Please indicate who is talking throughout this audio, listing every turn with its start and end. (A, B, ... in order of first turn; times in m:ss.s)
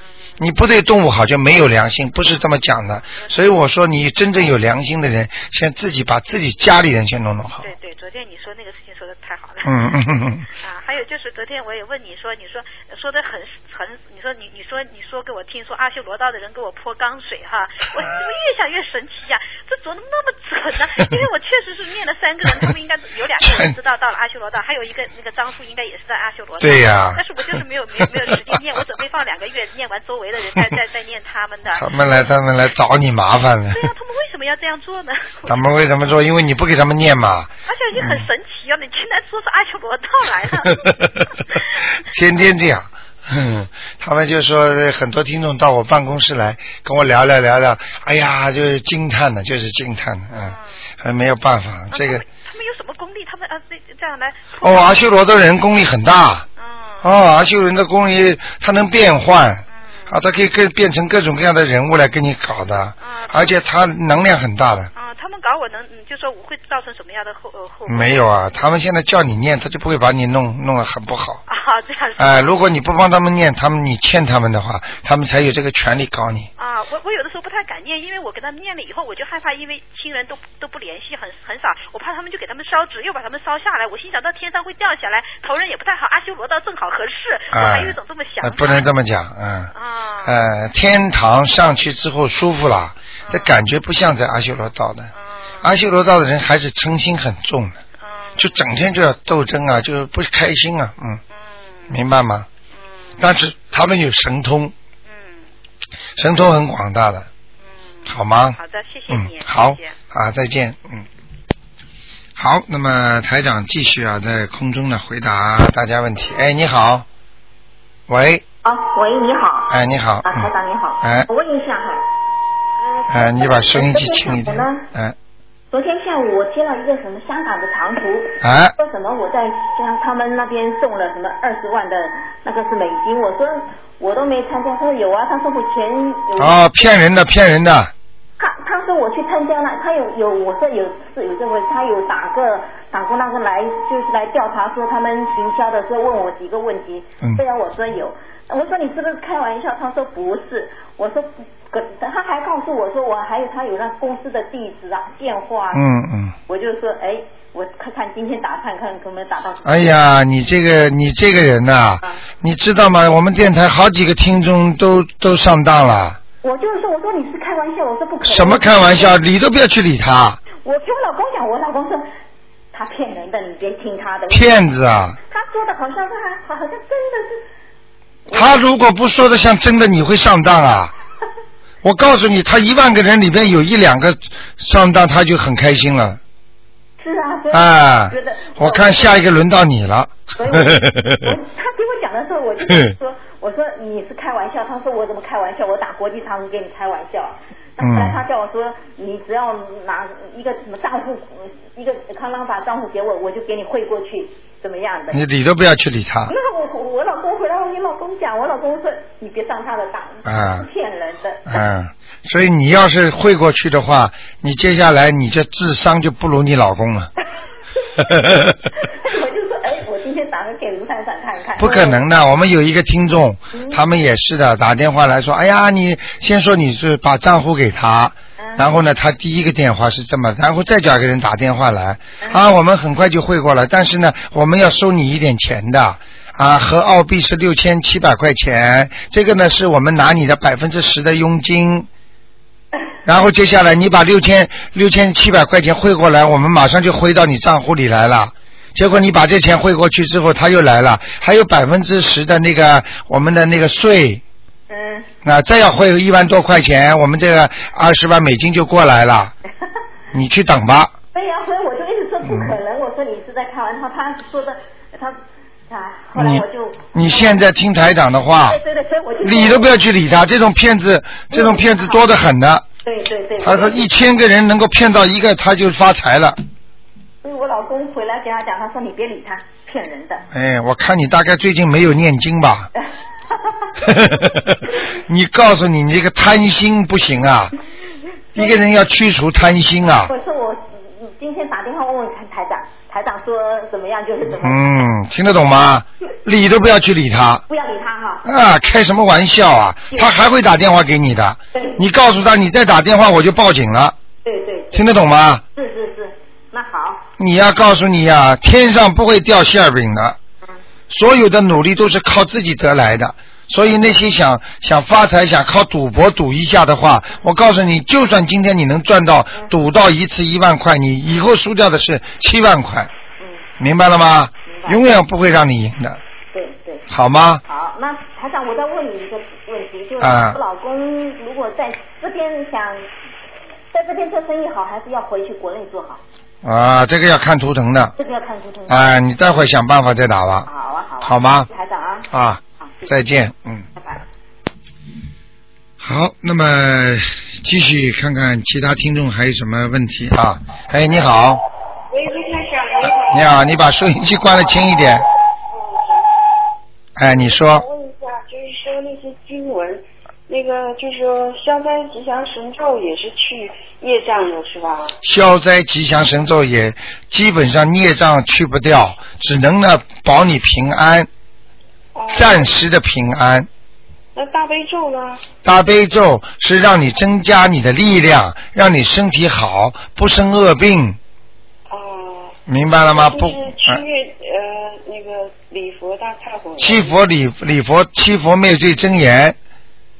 0:00.4-0:07.7 A
0:07.6-0:10.0 B
0:09.6-0:10.5 A
0:10.6-0:32.0 B
0:23.4-0:23.7 A
0:26.6-0:27.2 A
0:28.0-0:28.6 A
0:31.8-0:33.9 A
0:33.7-0:35.7 B
0:35.5-0:38.2 A
0:37.6-0:42.0 B
0:40.8-0:41.2 A
0:42.0-0:52.2 A
0:50.4-0:50.7 B
0:51.9-0:55.0 B
0:54.6-0:56.5 A
0:56.6-0:57.1 B
0:57.0-1:04.9 A
0:59.8-1:00.2 B
1:03.0-1:03.6 B
1:04.9-1:08.4 B
1:07.9-1:11.4 A
1:11.5-1:12.6 B
1:12.2-1:16.5 A
1:16.6-1:28.9 B
1:27.5-1:29.7 A
1:29.7-1:30.4 B
1:30.2-1:37.8 A
1:33.2-1:33.5 B
1:35.1-1:35.7 B
1:38.0-1:38.6 B
1:38.4-1:41.2 A
1:41.3-1:42.0 B
1:41.9-1:42.5 A
1:42.7-1:43.2 B
1:43.2-1:44.7 A
1:45.1-1:45.5 B
1:46.2-1:47.3 A
1:47.6-1:50.0 B
1:48.0-1:48.6 A
1:49.1-1:51.0 A
1:52.4-1:57.0 A
1:58.1-1:58.4 A
1:58.6-2:02.0 C
1:59.7-2:01.3 A
2:02.8-2:04.9 C
2:03.1-2:05.1 A
2:05.7-2:16.6 C
2:08.4-2:08.7 A
2:16.4-2:17.9 A
2:18.4-2:35.8 C
2:35.7-2:36.4 A
2:36.5-2:39.9 C
2:39.6-2:46.2 A
2:46.4-2:49.2 C
2:48.2-2:50.4 A
2:50.6-2:52.1 C
2:52.7-2:54.5 C
2:54.3-2:55.2 A
2:55.3-2:57.4 C
2:58.3-2:58.6 C
2:58.3-3:00.9 A
3:01.8-3:06.2 A
3:07.0-3:09.2 C
3:07.5-3:11.3 A
3:10.4-3:25.2 C
3:17.8-3:18.2 A
3:25.1-3:26.3 A
3:26.3-3:31.6 C
3:30.2-3:30.7 A
3:31.5-3:37.1 A
3:37.8-3:42.0 C
3:38.0-3:38.5 A
3:41.6-4:01.9 A
3:43.5-3:43.8 C
3:48.4-3:48.8 C
3:52.2-3:52.4 C
4:03.0-4:14.2 A
4:14.7-4:15.1 C
4:15.2-4:19.3 A
4:20.1-4:20.9 A
4:21.1-4:25.2 C
4:22.2-4:22.5 A
4:25.7-4:27.4 C
4:26.1-4:28.6 A
4:28.4-4:29.8 C
4:29.2-4:32.6 A
4:31.3-4:32.0 C
4:32.8-4:33.9 C
4:33.4-4:36.4 A
4:37.2-4:40.2 C
4:40.3-4:42.7 A
4:43.3-4:43.7 C
4:43.8-4:47.5 A
4:48.3-4:50.1 A
4:50.1-4:54.6 C
4:54.3-4:57.4 A
4:57.5-4:58.3 C
4:58.2-5:04.0 A
5:01.5-5:01.8 C
5:04.2-5:04.9 C
5:04.7-5:05.4 A
5:05.5-5:07.0 C
5:07.2-5:10.2 A
5:10.9-5:22.9 A
5:23.2-5:23.4 C
5:23.6-5:26.0 A
5:24.5-5:24.8 C
5:26.3-5:26.8 C
5:26.9-5:27.4 A
5:27.4-5:32.9 C
5:30.0-5:30.4 A
5:33.7-5:36.0 C
5:36.4-5:37.9 A
5:38.0-5:38.8 C
5:38.7-5:40.5 A
5:40.5-5:42.1 C
5:41.0-5:41.5 A
5:42.1-5:43.7 A
5:42.6-5:42.9 C
5:43.8-5:44.0 C
5:45.8-5:51.4 A
5:51.9-5:53.4 D
5:53.1-5:55.0 A
5:55.5-5:56.0 D
5:57.0-5:57.6 A
5:57.0-6:05.0 D
6:05.0-6:11.1 A
6:11.9-6:12.5 D
6:12.1-6:13.5 A
6:14.1-6:15.2 D
6:15.4-6:21.0 A
6:21.7-6:27.0 D
6:22.5-6:23.8 A
6:26.6-6:29.4 A